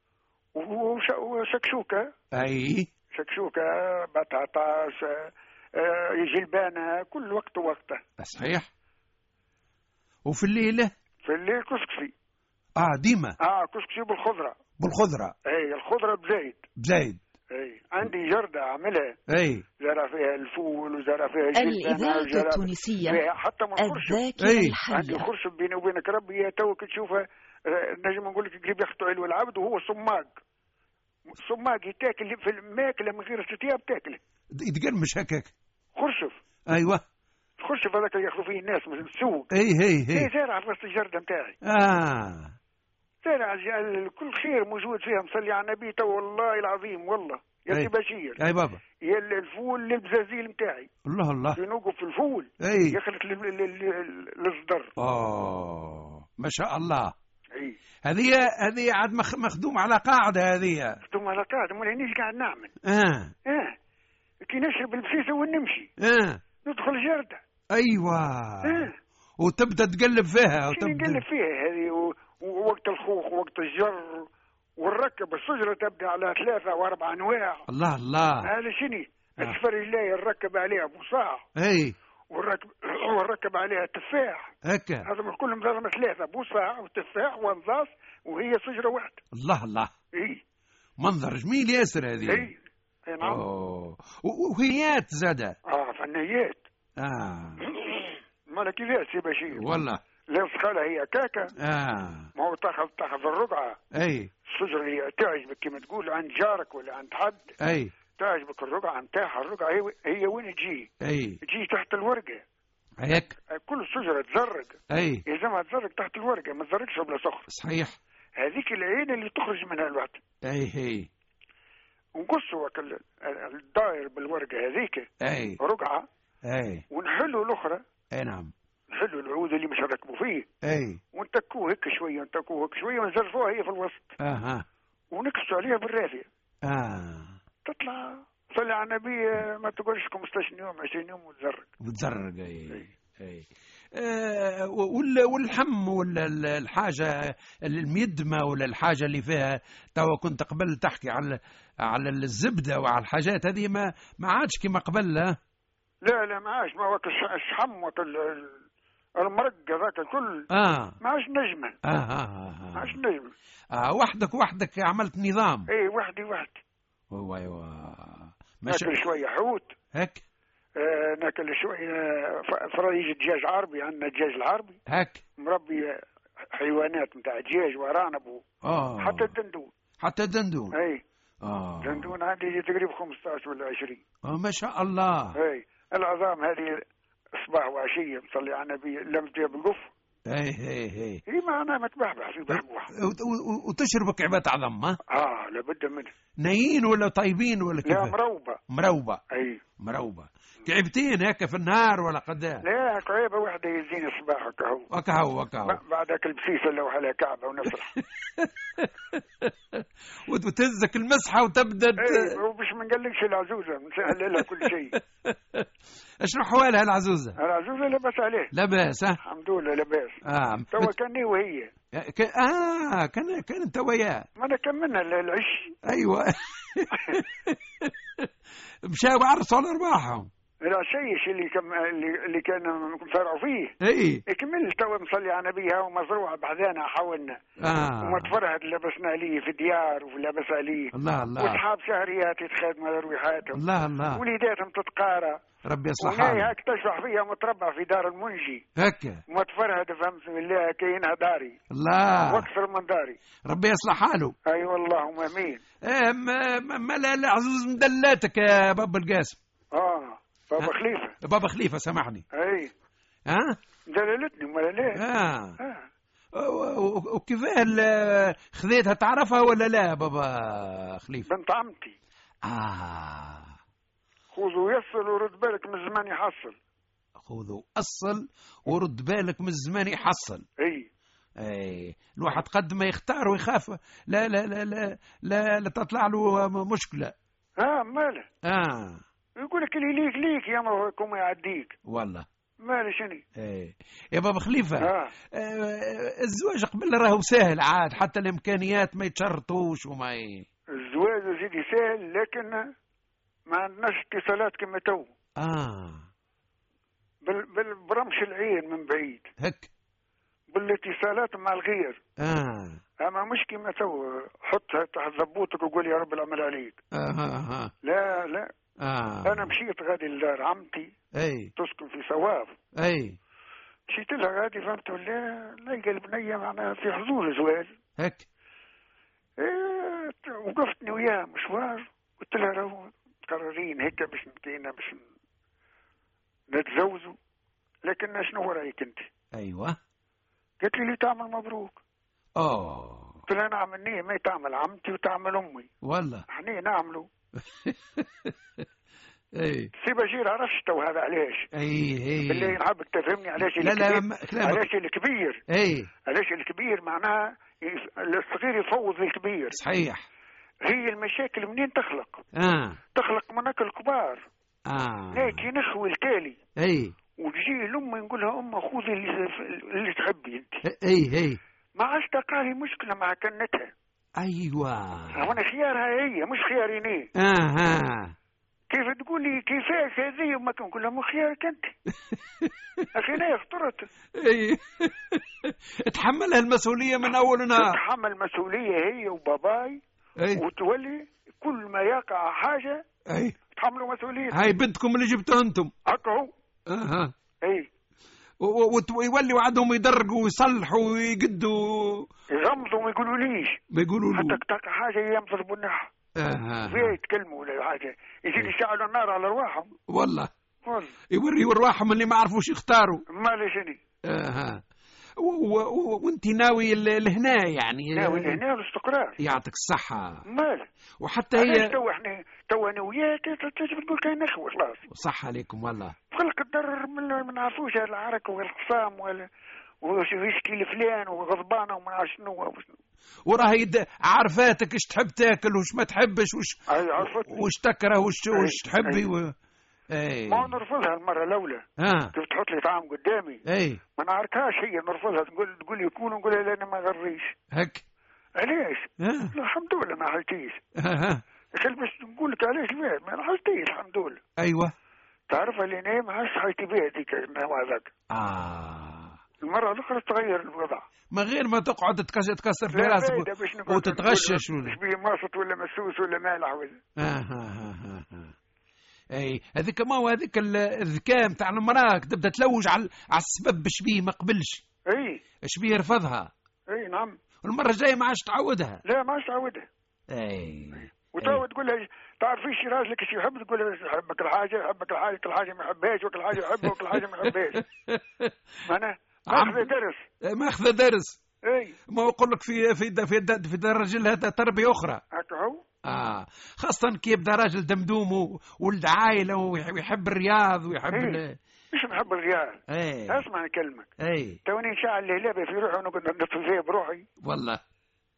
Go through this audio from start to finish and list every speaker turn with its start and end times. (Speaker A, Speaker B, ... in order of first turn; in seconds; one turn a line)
Speaker A: 0.6-2.1
Speaker B: 2.3-2.9
Speaker A: 3.1-8.0
Speaker B: 8.2-8.7
Speaker B: 10.3-10.9
Speaker A: 11.2-12.1
Speaker B: 12.8-13.4
Speaker A: 13.4-14.6
Speaker B: 14.8-15.3
Speaker A: 15.5-16.6
Speaker B: 16.8-17.2
Speaker A: 17.5-19.2
Speaker B: 19.3-19.7
Speaker A: 19.8-24.2
Speaker C: 21.6-23.2
Speaker C: 23.8-25.3
Speaker B: 24.4-24.8
Speaker A: 24.9-30.3
Speaker A: 31.3-34.2
Speaker B: 34.5-35.5
Speaker A: 36.0-36.4
Speaker B: 36.7-37.0
Speaker A: 37.6-39.5
Speaker B: 39.5-40.3
Speaker A: 40.1-41.6
Speaker B: 41.6-42.5
Speaker A: 43.2-48.4
Speaker B: 47.7-48.8
Speaker A: 49.0-50.9
Speaker B: 51.1-51.6
Speaker A: 51.5-54.9
Speaker B: 52.6-53.0
Speaker B: 55.0-57.1
Speaker B: 58.0-61.0
Speaker A: 61.1-62.7
Speaker B: 62.9-63.4
Speaker A: 63.5-63.8
Speaker A: 64.4-65.9
Speaker B: 66.0-66.4
Speaker A: 66.6-67.4
Speaker B: 67.7-71.2
Speaker A: 68.6-68.9
Speaker A: 70.7-74.3
Speaker A: 74.8-77.7
Speaker B: 77.7-78.5
Speaker A: 78.4-81.5
Speaker B: 81.6-82.0
Speaker A: 82.3-84.5
Speaker B: 84.6-85.1
Speaker A: 85.0-89.2
Speaker B: 89.3-89.9
Speaker A: 90.1-90.4
Speaker B: 91.0-92.5
Speaker A: 92.3-93.4
Speaker B: 93.2-95.6
Speaker A: 95.7-96.6
Speaker B: 97.0-97.7
Speaker A: 97.7-99.7
Speaker B: 99.5-100.0
Speaker A: 100.3-101.5
Speaker B: 101.6-102.3
Speaker A: 102.4-103.8
Speaker B: 103.9-104.3
Speaker A: 104.5-107.5
Speaker B: 107.6-107.9
Speaker A: 108.2-110.9
Speaker B: 111.0-111.4
Speaker A: 111.4-112.4
Speaker B: 113.0-113.4
Speaker A: 113.5-117.5
Speaker B: 114.9-115.2
Speaker B: 117.5-118.0
Speaker A: 118.4-120.2
Speaker B: 120.5-121.1
Speaker A: 122.2-125.1
Speaker B: 125.2-125.6
Speaker A: 125.6-126.1
Speaker B: 126.5-126.8
Speaker A: 126.9-127.8
Speaker B: 128.1-128.5
Speaker A: 128.9-130.5
Speaker B: 130.6-131.0
Speaker A: 131.1-134.1
Speaker B: 134.2-134.7
Speaker A: 135.1-136.3
Speaker B: 136.7-137.4
Speaker A: 137.7-141.7
Speaker B: 141.8-155.4
Speaker A: 156.0-158.6
Speaker A: 159.2-160.5
Speaker B: 160.5-161.0
Speaker A: 161.0-161.8
Speaker B: 161.8-163.0
Speaker A: 162.8-163.3
Speaker B: 163.7-165.7
Speaker A: 165.7-166.6
Speaker B: 167.1-169.0
Speaker A: 168.7-169.8
Speaker B: 169.9-170.2
Speaker A: 170.8-174.8
Speaker B: 174.9-175.2
Speaker A: 175.4-176.0
Speaker A: 176.5-178.4
Speaker B: 178.6-179.3
Speaker A: 179.0-179.7
Speaker B: 180.0-180.8
Speaker A: 180.7-181.0
Speaker B: 181.4-182.1
Speaker A: 181.8-184.0
Speaker B: 184.2-185.4
Speaker A: 185.4-186.8
Speaker A: 187.4-189.9
Speaker B: 190.3-191.2
Speaker A: 191.3-192.9
Speaker B: 192.5-195.0
Speaker A: 195.1-196.1
Speaker B: 196.4-198.2
Speaker A: 197.8-198.6
Speaker B: 198.7-199.2
Speaker A: 199.3-199.6
Speaker B: 199.8-202.7
Speaker A: 202.6-204.9
Speaker B: 204.9-205.8
Speaker A: 205.7-207.9
Speaker B: 208.4-212.4
Speaker A: 212.0-215.0
Speaker B: 214.4-214.7
Speaker B: 215.2-215.7
Speaker B: 216.2-217.4
Speaker A: 217.4-218.5
Speaker B: 218.5-219.2
Speaker A: 219.2-220.2
Speaker B: 220.3-220.9
Speaker A: 220.7-221.7
Speaker B: 221.9-224.3
Speaker A: 224.4-225.8
Speaker B: 225.8-228.3
Speaker B: 228.9-230.3
Speaker A: 230.7-233.7
Speaker B: 233.8-234.2
Speaker A: 234.3-237.4
Speaker B: 237.6-238.3
Speaker A: 238.0-243.6
Speaker B: 240.9-241.6
Speaker B: 243.6-244.2
Speaker A: 244.1-245.4
Speaker B: 245.7-246.5
Speaker A: 246.0-248.6
Speaker B: 248.8-249.2
Speaker A: 249.3-251.6
Speaker B: 251.7-252.5
Speaker A: 252.3-253.2
Speaker B: 253.5-254.3
Speaker A: 254.5-255.6
Speaker B: 255.8-259.4
Speaker A: 259.7-261.1
Speaker B: 260.6-262.2
Speaker A: 262.3-262.7
Speaker B: 263.3-263.6
Speaker A: 263.9-265.0
Speaker B: 264.9-265.6
Speaker A: 265.6-265.9
Speaker B: 266.3-271.3
Speaker A: 271.3-272.0
Speaker B: 272.5-273.6
Speaker A: 274.3-276.6
Speaker B: 277.2-280.5
Speaker A: 280.6-280.9
Speaker B: 281.4-287.1
Speaker A: 287.6-288.3
Speaker B: 288.4-289.0
Speaker A: 289.4-291.8
Speaker B: 291.9-292.3
Speaker A: 292.6-293.2
Speaker B: 293.4-300.5
Speaker A: 294.8-295.1
Speaker A: 300.8-302.7
Speaker A: 303.5-305.1
Speaker B: 305.4-306.0
Speaker A: 307.2-309.3
Speaker B: 309.4-309.7
Speaker A: 310.5-312.0
Speaker B: 312.2-312.8
Speaker A: 313.0-316.8
Speaker B: 316.9-317.7
Speaker A: 317.8-318.5
Speaker B: 318.8-319.5
Speaker A: 319.2-320.9
Speaker B: 321.2-321.5
Speaker A: 321.6-322.6
Speaker B: 322.8-323.2
Speaker A: 323.9-327.7
Speaker B: 328.0-328.3
Speaker A: 329.4-335.0
Speaker A: 336.5-337.2
Speaker A: 337.8-339.1
Speaker B: 339.3-339.8
Speaker A: 340.6-341.8
Speaker B: 342.4-343.2
Speaker A: 343.3-345.7
Speaker B: 345.8-346.2
Speaker A: 346.3-347.1
Speaker B: 347.4-348.6
Speaker B: 349.4-349.7
Speaker A: 349.8-351.5
Speaker B: 351.5-352.6
Speaker A: 352.3-355.4
Speaker B: 353.4-354.7
Speaker B: 355.5-355.9
Speaker A: 356.1-359.6
Speaker B: 359.5-360.1
Speaker A: 360.6-362.2
Speaker B: 362.4-362.8
Speaker A: 362.9-364.2
Speaker B: 364.7-365.4
Speaker A: 365.1-366.4
Speaker B: 366.6-366.9
Speaker A: 367.2-370.6
Speaker B: 370.7-371.4
Speaker A: 371.8-373.7
Speaker B: 374.2-375.3
Speaker A: 375.1-377.1
Speaker B: 377.2-378.1
Speaker A: 378.7-381.8
Speaker B: 382.0-382.9
Speaker A: 382.9-383.9
Speaker B: 384.2-387.8
Speaker A: 387.6-389.8
Speaker A: 390.4-392.8
Speaker B: 393.1-393.4
Speaker A: 393.5-394.4
Speaker B: 394.3-395.7
Speaker A: 395.9-396.3
Speaker B: 396.7-397.1
Speaker A: 397.4-397.7
Speaker B: 398.4-402.1
Speaker A: 402.3-403.6
Speaker B: 403.7-404.4
Speaker A: 404.1-405.9
Speaker B: 406.2-407.0
Speaker A: 406.7-409.7
Speaker B: 409.9-410.3
Speaker A: 410.7-410.9
Speaker B: 411.1-413.0
Speaker A: 413.1-413.8
Speaker B: 414.1-414.6
Speaker B: 415.2-418.4
Speaker A: 417.9-419.2
Speaker B: 419.2-420.2
Speaker A: 420.3-420.7
Speaker B: 421.0-421.8
Speaker A: 421.4-424.8
Speaker B: 424.9-426.0
Speaker A: 426.1-429.3
Speaker A: 429.8-432.7
Speaker B: 433.3-439.4
Speaker A: 436.7-437.4
Speaker A: 438.3-439.0
Speaker B: 439.9-440.6
Speaker A: 440.3-443.4
Speaker B: 441.8-442.1
Speaker B: 443.5-443.8
Speaker A: 444.0-447.4
Speaker B: 447.5-447.8
Speaker A: 448.4-450.6
Speaker B: 449.0-449.3
Speaker B: 450.8-451.2
Speaker A: 451.6-454.2
Speaker B: 454.4-454.7
Speaker A: 455.3-457.9
Speaker B: 458.1-459.2
Speaker A: 459.4-460.9
Speaker B: 461.1-464.8
Speaker A: 462.7-466.8
Speaker B: 467.0-468.3
Speaker B: 469.1-474.6
Speaker A: 474.9-475.2
Speaker B: 475.5-476.3
Speaker A: 476.7-477.2
Speaker B: 477.4-478.8
Speaker A: 478.9-479.7
Speaker B: 480.1-481.4
Speaker A: 481.1-487.6
Speaker B: 486.6-488.3
Speaker A: 488.7-490.0
Speaker B: 489.3-489.7
Speaker B: 490.2-491.2
Speaker A: 491.5-491.8
Speaker B: 491.9-495.0
Speaker A: 495.1-495.6
Speaker B: 495.9-501.4
Speaker A: 500.9-501.2
Speaker A: 501.7-503.9
Speaker B: 502.7-503.3
Speaker B: 504.0-504.4
Speaker A: 504.4-507.1
Speaker B: 507.2-507.6